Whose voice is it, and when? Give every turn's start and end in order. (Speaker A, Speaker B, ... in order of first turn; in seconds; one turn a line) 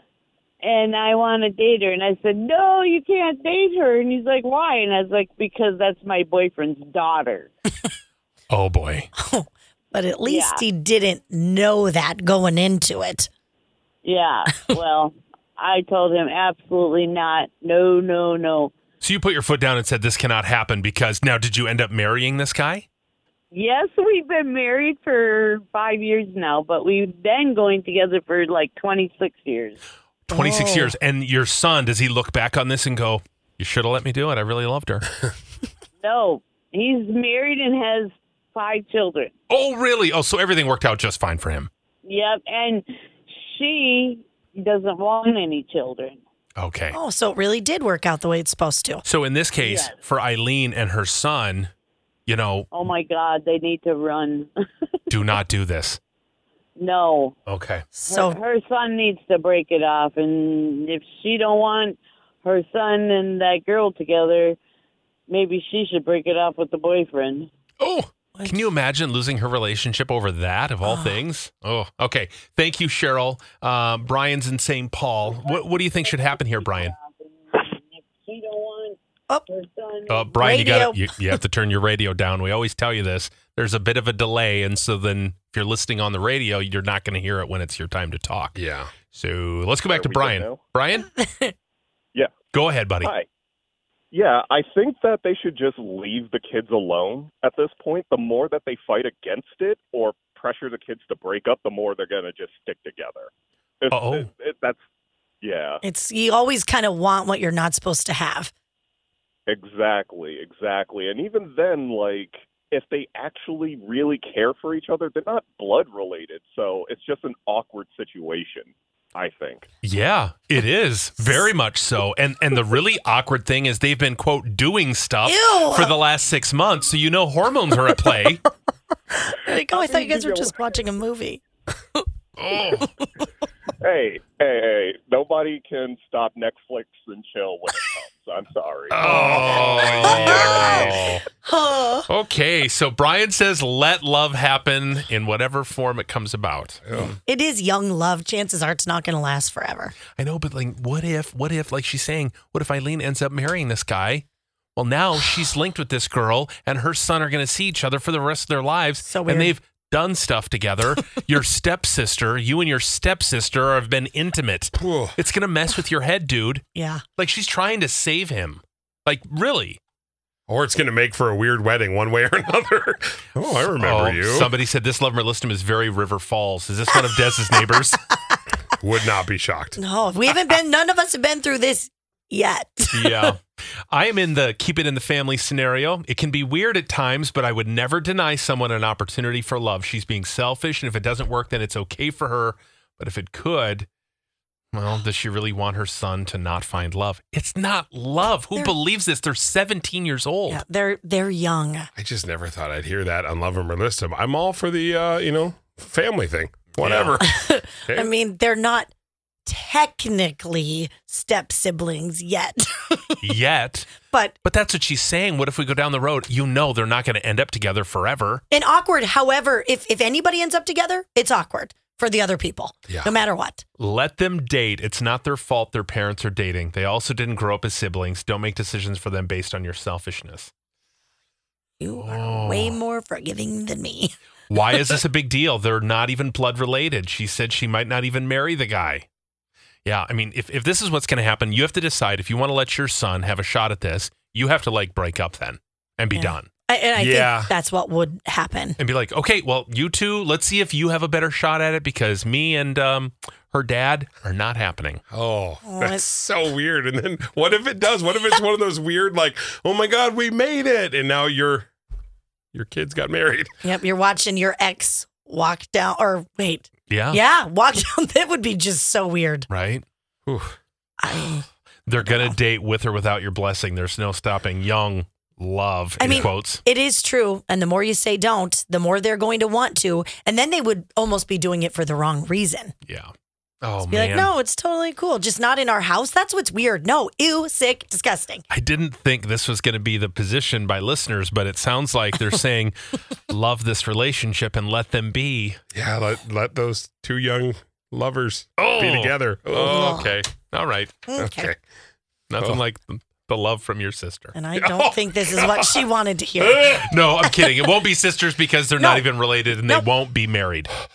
Speaker A: 0.6-7.5
Speaker B: 8.5-9.1
Speaker C: 9.2-13.3
Speaker A: 10.2-10.6
Speaker A: 14.0-18.7
Speaker B: 19.0-22.9
Speaker A: 23.5-29.8
Speaker B: 30.3-35.1
Speaker C: 30.3-30.9
Speaker A: 36.0-39.3
Speaker B: 39.5-41.7
Speaker A: 42.0-46.2
Speaker B: 46.6-47.0
Speaker C: 46.9-49.0
Speaker B: 49.0-51.7
Speaker A: 49.6-50.0
Speaker B: 52.3-52.7
Speaker A: 52.7-54.5
Speaker B: 55.1-56.0
Speaker A: 56.8-57.4
Speaker B: 57.5-57.9
Speaker C: 57.9-58.4
Speaker A: 58.1-64.6
Speaker A: 65.3-67.5
Speaker B: 67.8-76.9
Speaker C: 68.4-68.7
Speaker C: 70.8-71.2
Speaker A: 75.4-80.3
Speaker B: 80.1-88.5
Speaker C: 80.4-81.4
Speaker D: 88.6-88.9
Speaker B: 89.1-91.1
Speaker E: 89.9-90.6
Speaker C: 91.1-91.5
Speaker B: 92.5-93.1
Speaker E: 94.1-104.8
Speaker B: 103.9-104.3
Speaker E: 105.4-105.8
Speaker C: 105.8-108.5
Speaker E: 109.5-119.7
Speaker B: 119.8-128.4
Speaker C: 125.2-126.0
Speaker C: 129.2-131.4
Speaker A: 129.7-130.5
Speaker B: 132.4-132.9
Speaker C: 132.6-133.1
Speaker E: 133.8-138.9
Speaker B: 138.9-141.2
Speaker D: 139.0-141.0
Speaker C: 140.0-142.1
Speaker B: 142.1-147.0
Speaker D: 146.9-147.2
Speaker C: 147.3-149.9
Speaker B: 150.2-166.7
Speaker C: 159.0-159.6
Speaker D: 164.8-165.2
Speaker C: 166.8-167.0
Speaker B: 167.2-169.8
Speaker D: 170.5-174.5
Speaker B: 173.7-178.0
Speaker D: 178.8-179.8
Speaker C: 179.8-183.3
Speaker B: 182.9-193.9
Speaker B: 194.7-200.6
Speaker C: 200.5-201.9
Speaker D: 202.0-208.1
Speaker B: 206.8-207.3
Speaker C: 207.2-208.9
Speaker C: 209.5-213.3
Speaker B: 213.2-218.4
Speaker C: 214.0-214.3
Speaker C: 218.5-223.6
Speaker D: 222.9-223.1
Speaker B: 223.8-230.5
Speaker C: 231.8-234.2
Speaker B: 231.9-232.8
Speaker B: 234.5-239.1
Speaker B: 239.8-247.5
Speaker C: 246.2-248.8
Speaker B: 248.8-255.0
Speaker D: 255.1-261.7
Speaker C: 255.6-256.1
Speaker D: 262.5-263.5
Speaker C: 263.6-269.5
Speaker B: 266.9-267.2
Speaker B: 269.5-269.8
Speaker D: 270.3-270.6
Speaker C: 271.0-271.5
Speaker B: 271.9-276.6
Speaker C: 272.0-272.4
Speaker C: 276.0-282.7
Speaker B: 282.9-283.1
Speaker B: 283.6-284.3
Speaker C: 283.9-288.4
Speaker B: 288.5-292.8
Speaker B: 293.3-295.6
Speaker D: 295.7-300.1
Speaker B: 298.6-299.1
Speaker C: 299.6-300.2
Speaker B: 299.7-301.1
Speaker C: 301.1-301.5
Speaker D: 301.2-301.6
Speaker B: 302.3-304.4
Speaker C: 304.3-307.6
Speaker D: 304.6-305.6
Speaker B: 306.7-310.7
Speaker C: 308.8-309.1